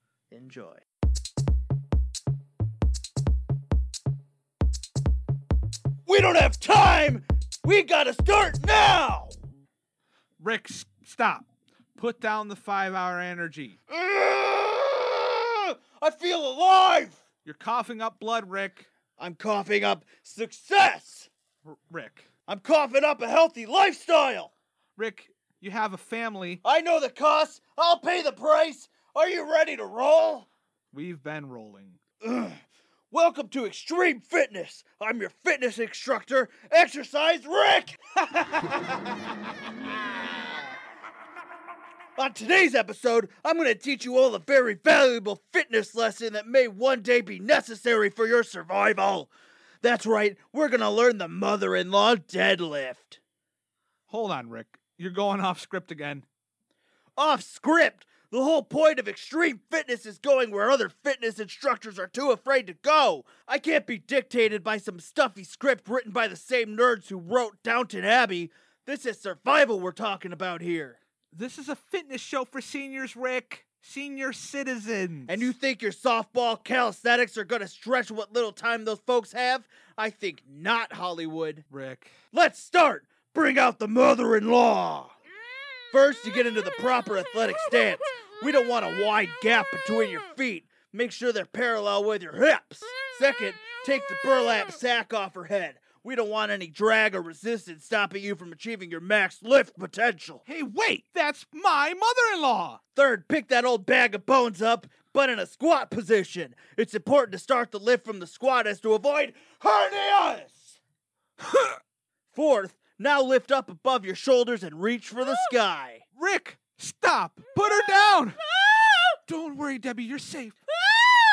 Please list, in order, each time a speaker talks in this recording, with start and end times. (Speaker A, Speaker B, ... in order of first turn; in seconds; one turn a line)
Speaker A: 0.3-0.8
Speaker A: 6.1-9.4
Speaker B: 10.4-11.4
Speaker B: 12.0-13.8
Speaker A: 13.9-17.2
Speaker B: 17.4-18.9
Speaker A: 19.2-21.3
Speaker B: 21.7-22.3
Speaker A: 22.5-24.5
Speaker B: 25.0-26.6
Speaker A: 26.6-30.5
Speaker B: 30.9-32.0
Speaker A: 32.2-39.0
Speaker A: 40.2-40.5
Speaker A: 42.2-53.2
Speaker B: 54.1-56.2
Speaker A: 57.2-71.0
Speaker B: 71.3-75.5
Speaker A: 75.3-81.7
Speaker B: 81.7-82.1
Speaker A: 82.3-85.1
Speaker A: 85.9-100.4
Speaker B: 100.5-102.8
Speaker A: 103.0-110.8
Speaker B: 111.4-111.8
Speaker A: 112.3-116.0
Speaker B: 116.2-118.4
Speaker B: 119.2-120.6